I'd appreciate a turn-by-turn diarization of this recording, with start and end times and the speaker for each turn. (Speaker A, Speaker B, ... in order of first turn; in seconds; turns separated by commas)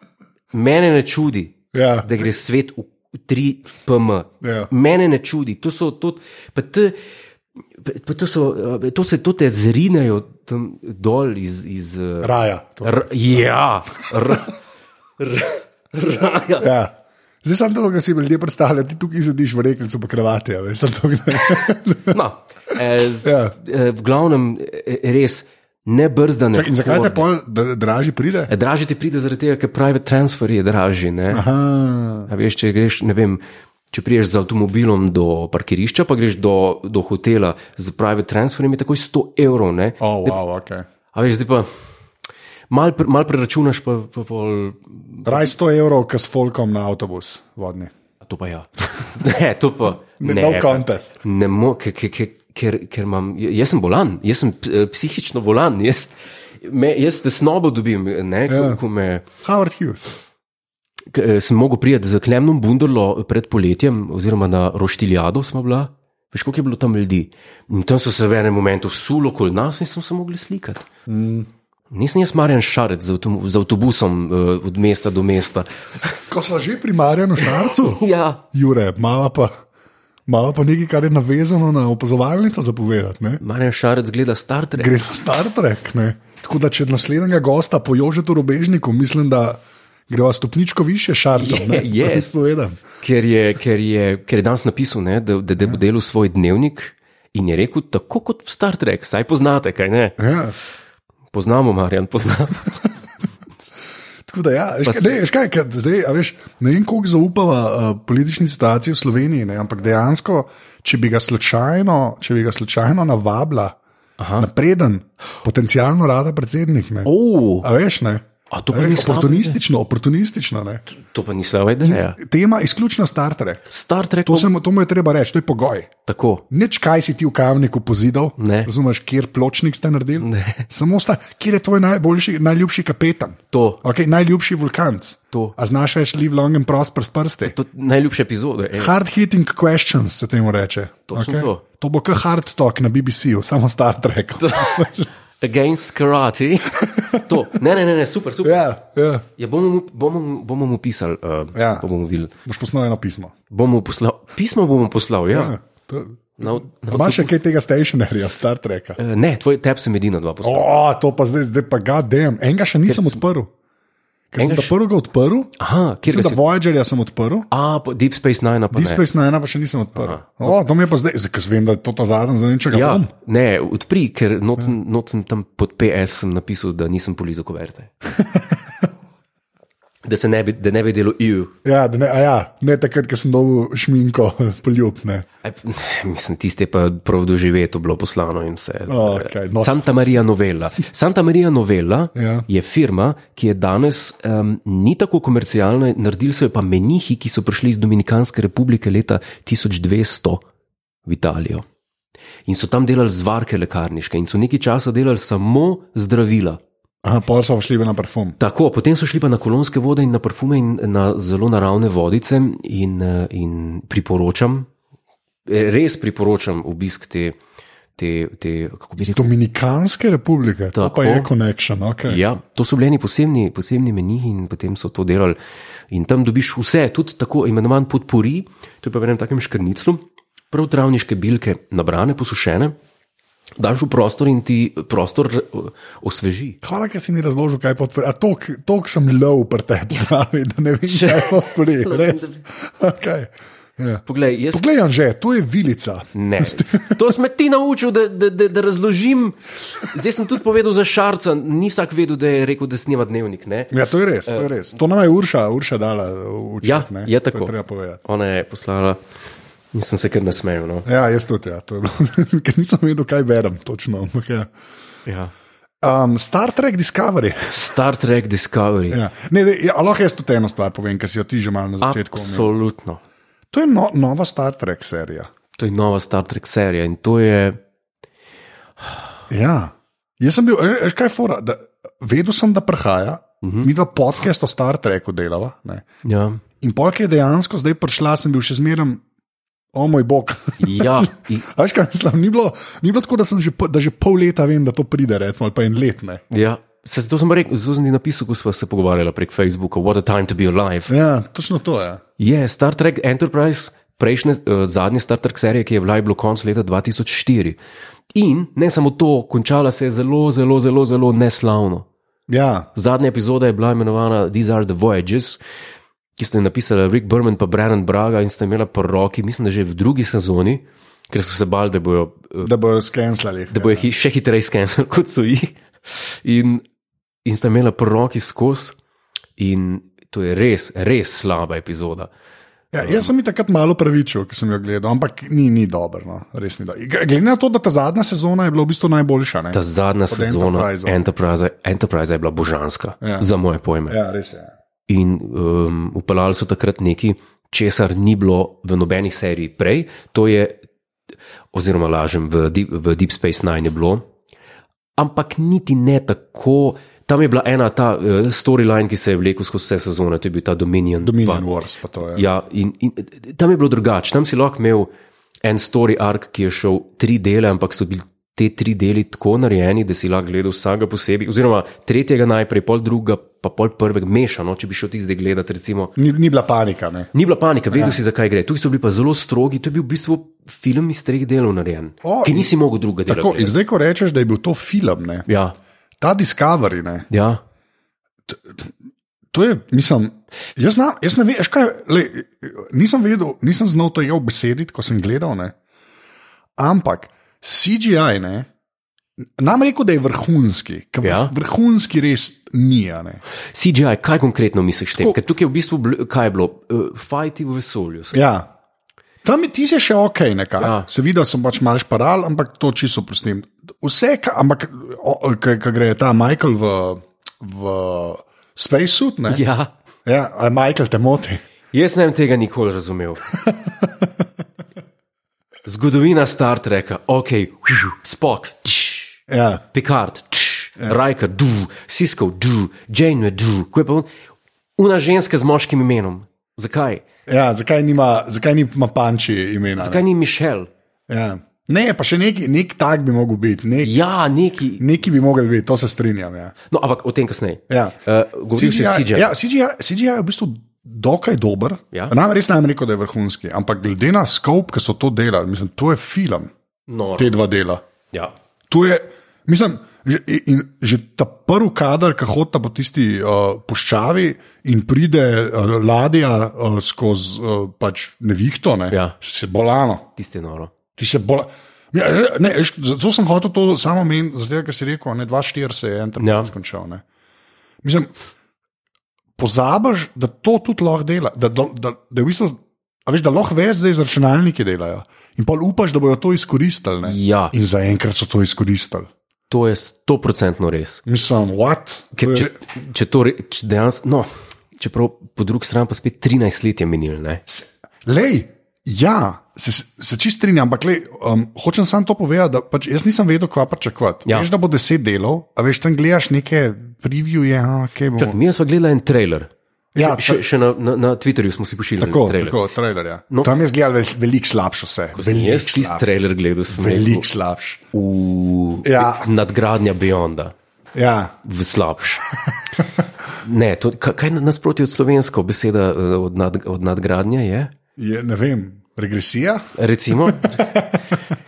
Speaker A: 0.5-7.0, Speaker B: 1.7-2.2, Speaker B: 4.4-4.7, Speaker A: 7.8-14.6, Speaker B: 12.2-13.1, Speaker A: 15.2-16.7, Speaker B: 16.6-22.2, Speaker A: 22.1-27.3, Speaker B: 23.2-23.6, Speaker B: 26.5-28.5, Speaker A: 28.5-31.4, Speaker B: 31.3-32.3, Speaker A: 32.3-40.4, Speaker B: 40.0-40.9, Speaker A: 41.1-41.7, Speaker A: 42.7-45.5, Speaker B: 45.3-47.9, Speaker A: 48.2-59.3, Speaker B: 50.2-51.2, Speaker B: 58.5-58.8, Speaker B: 59.4-60.1, Speaker A: 61.1-70.9, Speaker B: 71.1-71.5, Speaker A: 71.9-76.2, Speaker B: 76.3-79.5, Speaker A: 77.4-78.4, Speaker B: 80.3-83.4, Speaker A: 83.4-85.0, Speaker B: 84.8-92.8, Speaker A: 91.3-92.3, Speaker A: 93.0-100.2, Speaker B: 100.2-100.5, Speaker A: 101.3-102.9, Speaker B: 104.3-113.8, Speaker A: 104.8-105.2, Speaker A: 114.2-114.5, Speaker B: 114.4-117.1, Speaker A: 117.0-117.7, Speaker B: 117.6-120.8, Speaker A: 118.5-119.6, Speaker A: 120.9-122.2, Speaker B: 121.8-123.7, Speaker A: 123.7-124.5, Speaker B: 124.3-125.9, Speaker A: 126.0-126.4, Speaker B: 126.5-137.6, Speaker A: 128.4-128.7, Speaker A: 130.2-130.7, Speaker A: 133.5-133.8, Speaker A: 137.4-138.9, Speaker B: 138.8-145.1, Speaker A: 141.1-141.6, Speaker A: 144.4-148.7, Speaker B: 146.8-147.4, Speaker B: 148.4-149.2, Speaker A: 149.4-152.3, Speaker B: 151.6-151.9, Speaker B: 152.4-153.3, Speaker A: 153.5-155.6, Speaker B: 155.3-159.0, Speaker A: 156.4-157.3, Speaker A: 159.0-160.7, Speaker B: 160.4-163.5, Speaker A: 162.9-163.2, Speaker B: 164.3-165.5, Speaker A: 164.4-164.7, Speaker A: 165.6-166.4, Speaker B: 166.1-167.5, Speaker A: 167.5-169.0, Speaker B: 168.7-173.1, Speaker A: 170.0-170.6, Speaker A: 172.7-177.9, Speaker B: 178.2-178.6, Speaker A: 180.1-181.5, Speaker B: 181.7-185.3, Speaker A: 185.4-200.4, Speaker B: 188.9-189.8, Speaker B: 192.2-192.5, Speaker A: 201.1-201.7, Speaker A: 202.5-206.6, Speaker B: 207.0-208.4, Speaker A: 208.4-214.7, Speaker A: 215.5-217.4, Speaker A: 218.0-219.3, Speaker B: 219.0-222.2, Speaker A: 220.8-221.3, Speaker A: 222.1-225.4, Speaker A: 225.9-232.8, Speaker A: 233.6-236.6, Speaker B: 236.6-247.0, Speaker A: 240.9-242.4, Speaker A: 244.1-244.7, Speaker A: 246.1-253.8, Speaker B: 253.7-258.0, Speaker A: 254.3-254.5, Speaker A: 256.6-259.0, Speaker A: 259.7-260.9, Speaker B: 260.9-264.5, Speaker A: 265.1-265.3, Speaker B: 265.8-267.6, Speaker A: 267.5-269.0, Speaker B: 268.9-272.5, Speaker A: 271.8-273.0, Speaker B: 273.5-275.3, Speaker A: 275.6-277.6, Speaker B: 279.3-285.8, Speaker A: 283.4-283.7, Speaker A: 286.0-286.4, Speaker B: 286.6-289.0, Speaker B: 289.7-296.2, Speaker A: 290.6-291.5, Speaker A: 296.3-300.9, Speaker B: 300.9-302.0, Speaker A: 302.2-307.6, Speaker A: 308.1-311.9, Speaker B: 312.3-312.7, Speaker A: 312.7-315.4, Speaker A: 316.2-322.5, Speaker B: 322.4-323.9, Speaker A: 323.5-326.6, Speaker A: 327.2-328.7, Speaker A: 329.4-332.1, Speaker B: 332.7-341.0, Speaker A: 339.5-344.0, Speaker B: 343.0-343.3, Speaker B: 343.9-344.5, Speaker A: 344.9-350.6, Speaker A: 351.5-354.0, Speaker A: 355.0-361.5, Speaker B: 361.0-362.3, Speaker A: 362.1-364.9, Speaker A: 365.4-375.9, Speaker B: 376.0-377.1, Speaker A: 377.1-383.6, Speaker B: 377.7-378.0, Speaker B: 382.0-382.5, Speaker B: 383.1-385.3, Speaker A: 385.3-385.6, Speaker B: 386.0-387.1, Speaker A: 387.1-387.4, Speaker B: 388.3-388.7, Speaker B: 389.3-395.5, Speaker B: 396.6-398.5, Speaker B: 399.4-403.2, Speaker A: 401.0-401.3, Speaker A: 403.5-408.2, Speaker B: 408.1-408.5, Speaker B: 409.2-419.4, Speaker A: 410.6-410.9, Speaker A: 419.3-419.7, Speaker B: 420.1-421.4, Speaker A: 421.7-423.4, Speaker B: 423.4-424.1, Speaker A: 425.7-434.1, Speaker B: 429.3-429.6, Speaker A: 434.8-437.0, Speaker B: 437.3-440.0, Speaker A: 439.7-440.7, Speaker B: 441.1-444.0, Speaker A: 443.8-444.9, Speaker B: 444.8-446.5, Speaker A: 446.7-449.3, Speaker B: 447.7-448.0, Speaker B: 448.5-456.5, Speaker A: 456.9-457.3, Speaker B: 457.2-457.8, Speaker B: 458.7-470.1, Speaker A: 468.9-469.2, Speaker A: 470.2-470.7, Speaker B: 471.0-477.0, Speaker A: 476.2-476.5, Speaker B: 477.8-478.1, Speaker B: 479.4-489.1, Speaker A: 487.0-487.6, Speaker A: 489.5-491.0, Speaker B: 491.1-492.5, Speaker A: 492.1-497.4, Speaker B: 497.5-508.4, Speaker A: 508.2-512.6, Speaker B: 509.9-510.4, Speaker B: 512.0-516.1, Speaker A: 513.3-513.6, Speaker A: 515.1-517.2, Speaker B: 516.7-517.8, Speaker A: 517.9-520.5, Speaker B: 518.8-519.3, Speaker B: 521.0-521.4, Speaker A: 521.4-522.3, Speaker A: 523.4-527.7, Speaker B: 528.0-529.6, Speaker A: 529.8-530.8, Speaker B: 530.3-531.0